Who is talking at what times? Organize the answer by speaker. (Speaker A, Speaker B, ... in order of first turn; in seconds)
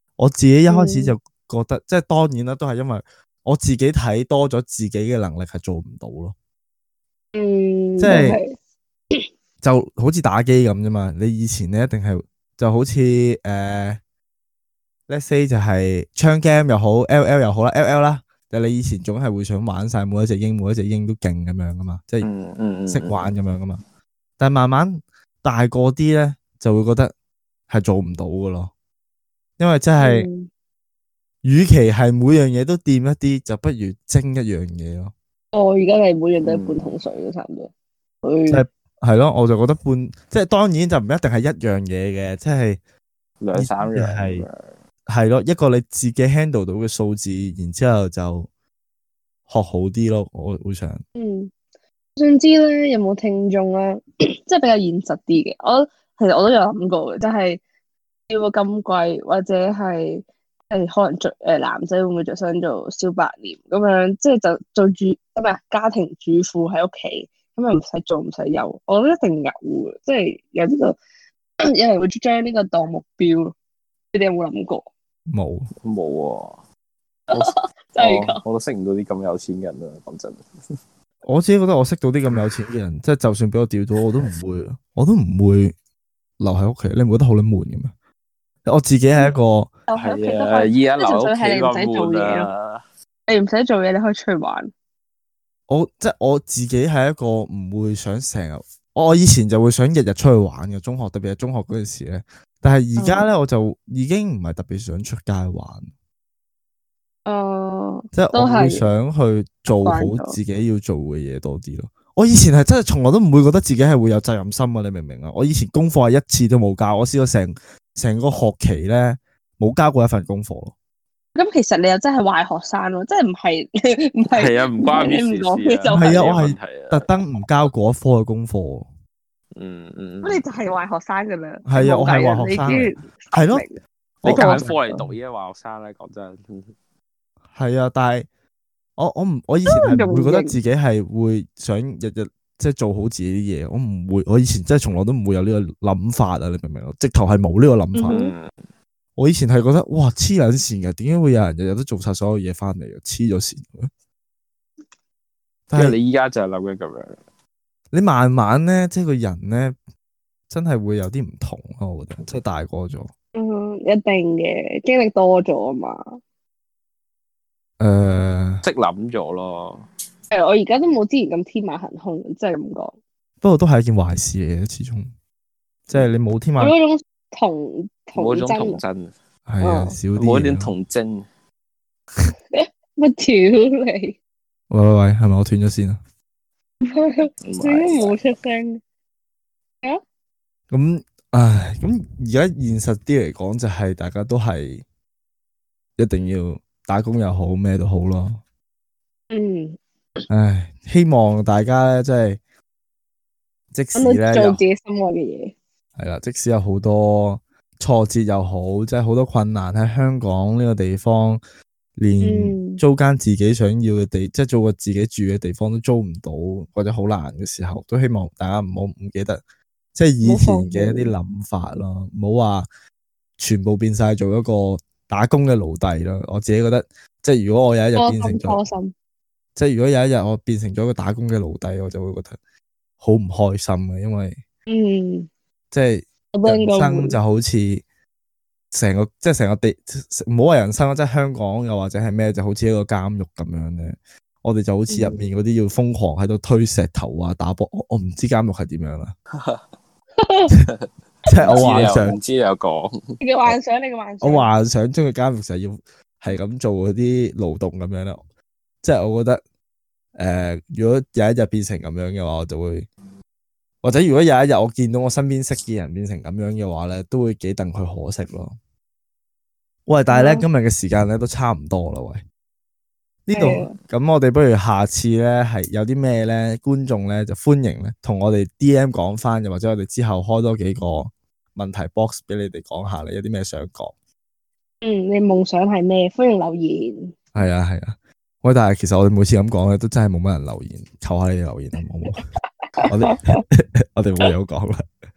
Speaker A: 0.2-6.3, 8.0-8.4, 9.6-14.0, 15.1-22.3, 22.9-23.8, 24.4-27.1, 27.7-28.7, 29.6-30.3, 31.4-35.1, 38.5-42.8, 43.5-44.5, 45.1-48.5, 49.5-51.0, 75.3-75.7, 81.2-85.7, 86.4-87.9, 88.7-89.7, 95.7-105.9, 108.1-120.7, 125.9-128.9, 131.7-133.6, 134.2-135.1, 137.5-138.3, 139.0-148.2, 149.2-153.9, 155.7-156.0, 157.9-159.8, 160.5-163.1, 167.8-168.6, 173.4-175.1, 175.9-176.8, 179.5-180.7, 184.7-186.0, 190.7-194.8, 196.0-198.4, 200.3-202.4, 203.7-204.6, 206.0-211.4, 212.0-219.4, 219.9-222.7, 223.4-228.6, 229.6-232.4, 233.0-234.4, 235.7-237.8, 238.7-249.1, 251.3-252.2, 254.2-258.2, 258.8-259.4, 260.2-262.9, 263.8-268.6, 269.9-272.2, 273.3-283.9, 287.4-292.2, 292.9-294.9
Speaker B: 0.7-1.1, 7.3-8.5, 30.0-30.5, 35.5-37.7, 38.2-38.6, 51.2-51.5, 52.2-57.6, 58.3-71.0, 71.7-73.5, 74.1-74.9, 77.3-78.4, 89.9-92.5, 93.3-94.7, 103.0-103.3, 107.3-108.9, 109.7-110.4, 121.3-126.2, 130.2-134.7, 139.7-140.6, 147.9-148.3, 163.3-166.2, 170.3-173.0, 176.6-178.8, 179.6-180.0, 182.5-184.2, 186.8-188.8, 199.3-199.8, 203.9-205.6, 212.2-212.8, 220.2-221.1, 228.0-228.9, 234.7-235.3, 236.3-237.2, 244.9-245.2, 250.2-250.5, 251.3-251.6, 253.2-254.5, 270.1-270.4, 273.3-273.8, 284.8-287.3, 292.8-293.4
Speaker C: 22.2-23.2, 36.4-36.9, 43.4-44.8, 75.8-76.6, 77.3-80.5, 90.0-92.8, 124.3-127.1, 129.6-130.4, 134.2-136.7, 148.1-148.5, 155.7-157.2, 168.7-169.9, 178.2-179.2, 180.2-181.3, 187.4-188.2, 251.5-253.2